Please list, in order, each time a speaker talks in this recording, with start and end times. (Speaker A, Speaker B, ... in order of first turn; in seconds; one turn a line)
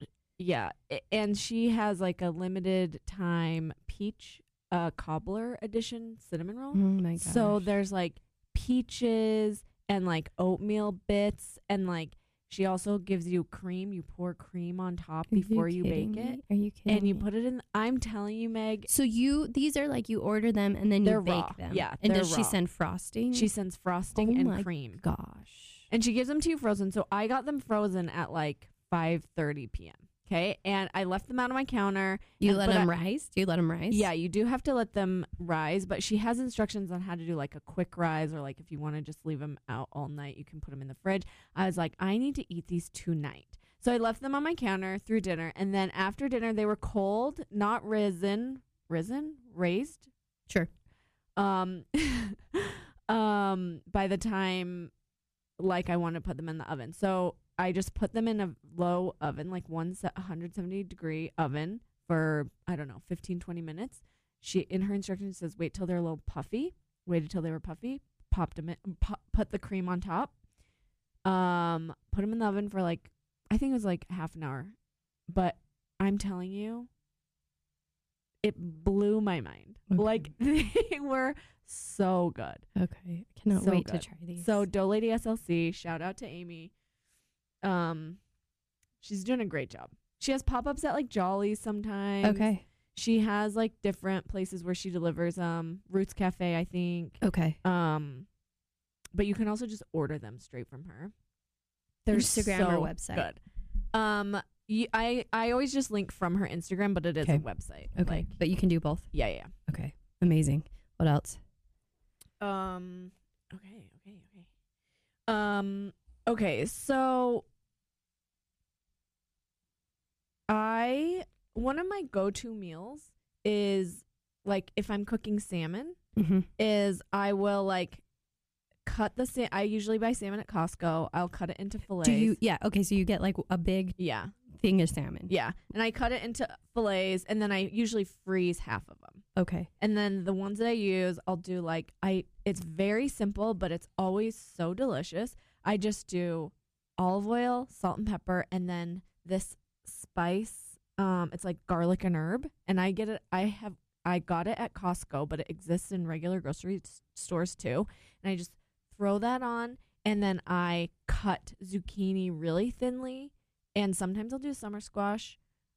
Speaker A: 0.4-18.9
Speaker B: 6.8-7.7
Speaker B: 15.3-17.2
Speaker B: 18.9-23.5
Speaker A: 21.0-22.6
Speaker A: 23.3-25.0
Speaker B: 24.2-25.9
Speaker A: 25.9-32.9
Speaker B: 32.4-34.1
Speaker A: 33.9-50.1
Speaker A: 51.4-54.9
Speaker A: 55.6-70.3
Speaker A: 71.2-74.7
Speaker A: 75.3-76.9
Speaker A: 78.4-82.6
Speaker B: 79.9-80.3
Speaker B: 82.8-84.6
Speaker A: 83.5-86.7
Speaker A: 87.6-88.2
Speaker A: 89.0-98.3
Speaker B: 92.2-92.6
Speaker B: 97.2-97.6
Speaker A: 99.1-101.1
Speaker A: 102.0-103.4
Speaker B: 102.1-103.3
Speaker A: 103.9-108.3
Speaker B: 108.0-109.1
Speaker A: 109.1-109.5
Speaker B: 109.7-111.4
Speaker A: 112.4-114.5
Speaker A: 115.3-117.5
Speaker A: 120.5-126.0
Speaker B: 126.2-126.5
Speaker A: 126.6-128.0
Speaker A: 128.9-132.4
Speaker B: 132.0-133.9
Speaker A: 134.0-134.3
Speaker B: 134.5-135.3
Speaker A: 135.3-139.2
Speaker B: 139.4-139.7
Speaker A: 139.8-165.4